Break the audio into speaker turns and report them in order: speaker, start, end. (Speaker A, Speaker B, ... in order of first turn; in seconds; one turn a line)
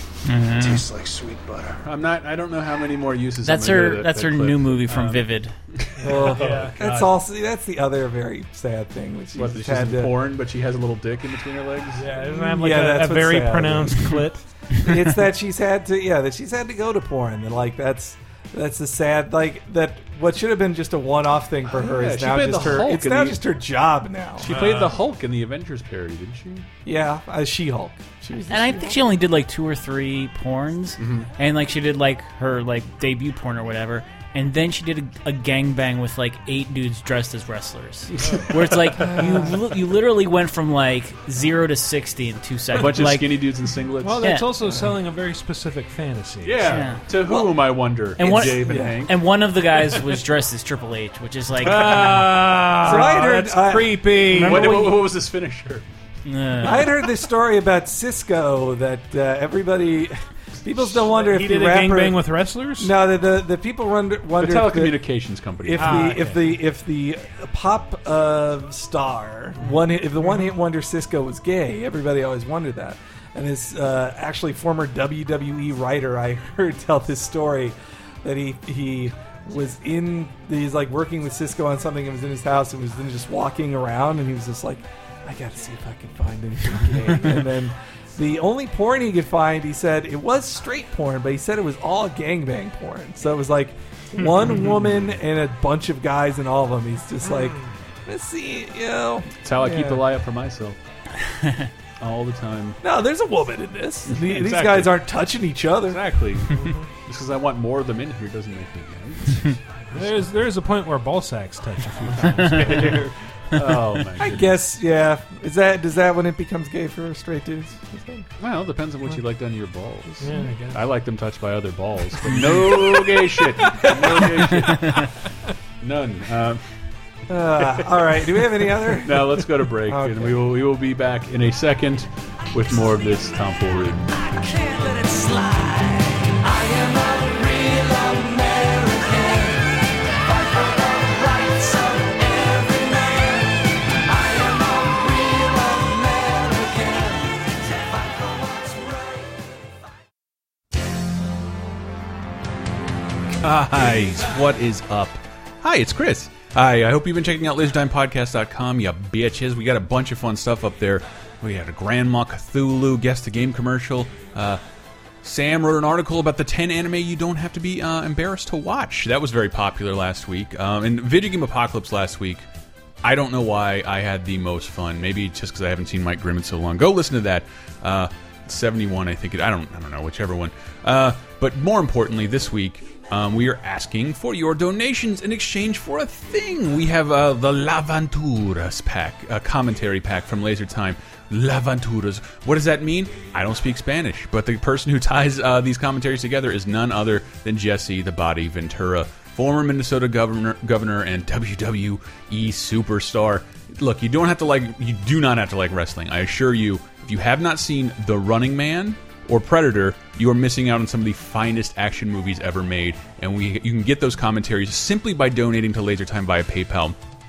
Speaker A: 0.3-0.8
Speaker B: 1.8-7.1
Speaker A: 3.4-5.5
Speaker C: 6.0-10.1
Speaker D: 6.0-6.8
Speaker B: 9.3-12.1
Speaker D: 11.9-14.5
Speaker C: 12.2-14.2
Speaker C: 14.8-24.5
Speaker B: 21.7-23.4
Speaker B: 24.4-26.7
Speaker D: 24.4-25.0
Speaker C: 26.9-29.0
Speaker A: 28.5-43.3
Speaker B: 31.0-31.3
Speaker B: 38.2-39.2
Speaker C: 39.0-39.6
Speaker B: 42.8-44.2
Speaker D: 44.0-46.7
Speaker A: 44.2-44.5
Speaker C: 44.6-44.9
Speaker B: 46.4-49.1
Speaker A: 46.7-47.0
Speaker C: 47.3-47.5
Speaker A: 48.2-52.2
Speaker C: 48.6-49.0
Speaker D: 51.6-54.9
Speaker B: 51.8-52.2
Speaker C: 52.8-54.1
Speaker B: 54.3-55.9
Speaker A: 54.3-54.9
Speaker A: 56.3-56.9
Speaker C: 56.6-62.2
Speaker D: 61.0-62.9
Speaker C: 62.8-65.0
Speaker B: 64.4-66.1
Speaker C: 65.6-100.0
Speaker D: 65.7-66.5
Speaker B: 99.4-100.8
Speaker A: 101.3-101.7
Speaker B: 102.0-102.8
Speaker C: 102.8-106.0
Speaker B: 104.1-105.0
Speaker B: 105.9-110.2
Speaker D: 106.5-106.9
Speaker D: 109.9-113.1
Speaker B: 112.1-114.5
Speaker C: 114.2-118.3
Speaker B: 118.4-125.0
Speaker D: 120.2-120.8
Speaker D: 123.8-124.1
Speaker A: 124.7-125.0
Speaker B: 125.8-126.6
Speaker C: 127.3-130.4
Speaker B: 129.0-134.1
Speaker B: 153.4-164.6
Speaker B: 165.2-172.4
Speaker B: 173.0-217.0